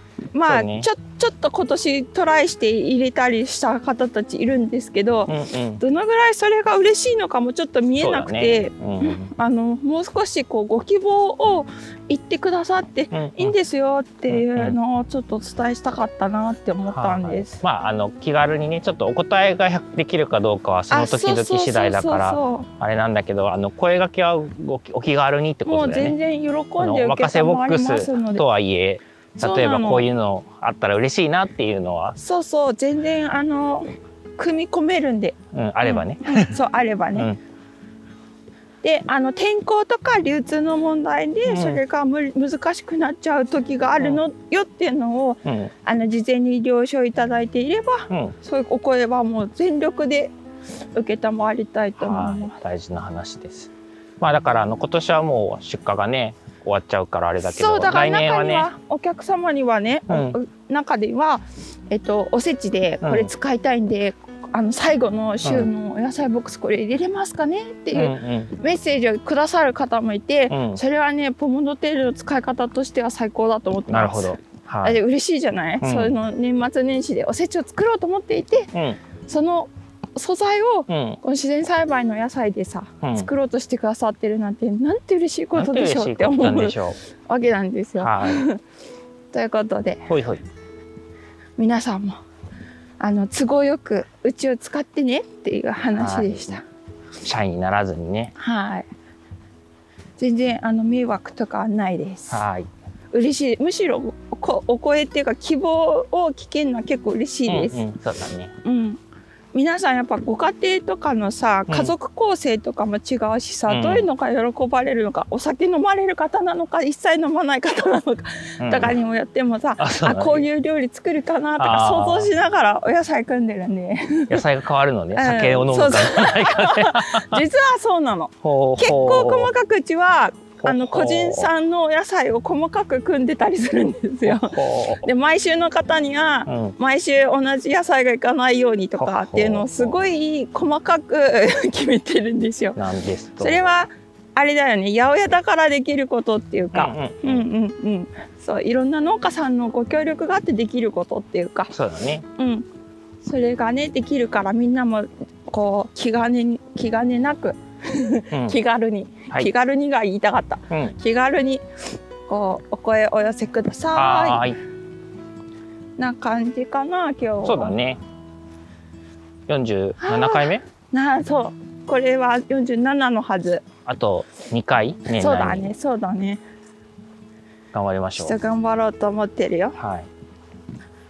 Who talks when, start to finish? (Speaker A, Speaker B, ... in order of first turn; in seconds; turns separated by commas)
Speaker A: 0.3-17.6, Speaker B: 0.5-0.9, Speaker B: 5.3-5.8, Speaker B: 8.0-9.3, Speaker B: 13.1-13.5, Speaker B: 14.3-14.8, Speaker B: 16.9-26.2, Speaker A: 20.9-22.7, Speaker A: 25.6-28.4, Speaker B: 26.8-32.2, Speaker A: 29.4-30.1, Speaker A: 32.2-37.3, Speaker B: 35.5-36.6, Speaker A: 38.8-50.3, Speaker B: 41.4-41.8, Speaker B: 45.4-45.7, Speaker B: 48.1-48.3, Speaker A: 50.9-52.5, Speaker B: 52.0-58.7, Speaker A: 57.4-78.7, Speaker B: 60.1-60.4, Speaker B: 63.0-63.3, Speaker B: 65.4-65.7, Speaker B: 67.9-68.5, Speaker B: 70.5-70.8, Speaker B: 73.9-75.0, Speaker B: 75.8-76.2, Speaker B: 78.7-79.0, Speaker A: 79.3-88.6, Speaker B: 80.9-81.2, Speaker B: 83.0-83.3, Speaker B: 85.5-87.0, Speaker B: 88.0-88.4, Speaker A: 89.3-90.1, Speaker B: 90.1-90.4, Speaker A: 91.6-92.2, Speaker A: 93.0-96.6, Speaker B: 95.9-96.6, Speaker B: 97.2-98.3, Speaker A: 98.3-98.9, Speaker A: 100.2-102.5, Speaker B: 102.3-102.7, Speaker A: 103.1-107.9, Speaker B: 107.5-108.5, Speaker A: 108.6-109.0, Speaker A: 109.5-124.5, Speaker B: 111.7-111.9, Speaker B: 113.7-114.1, Speaker B: 118.6-118.9, Speaker B: 119.8-120.5, Speaker B: 121.6-122.3, Speaker B: 124.3-127.4, Speaker A: 125.1-142.8, Speaker B: 128.4-129.5, Speaker B: 130.6-131.5, Speaker B: 134.2-135.1, Speaker B: 136.5-136.7, Speaker B: 139.0-140.0, Speaker B: 142.8-143.7, Speaker A: 143.4-151.7, Speaker B: 146.7-147.5, Speaker B: 151.7-152.2, Speaker A: 152.4-152.7, Speaker A: 153.2-161.6, Speaker B: 158.3-158.6, Speaker B: 160.7-160.9, Speaker A: 162.3-164.4, Speaker B: 163.9-164.6, Speaker A: 166.0-167.8, Speaker B: 167.4-168.0, Speaker B: 169.5-170.6, Speaker A: 170.0-173.6, Speaker B: 173.8-175.7, Speaker A: 175.1-176.4, Speaker B: 177.7-178.4, Speaker A: 178.2-179.8, Speaker B: 179.8-180.1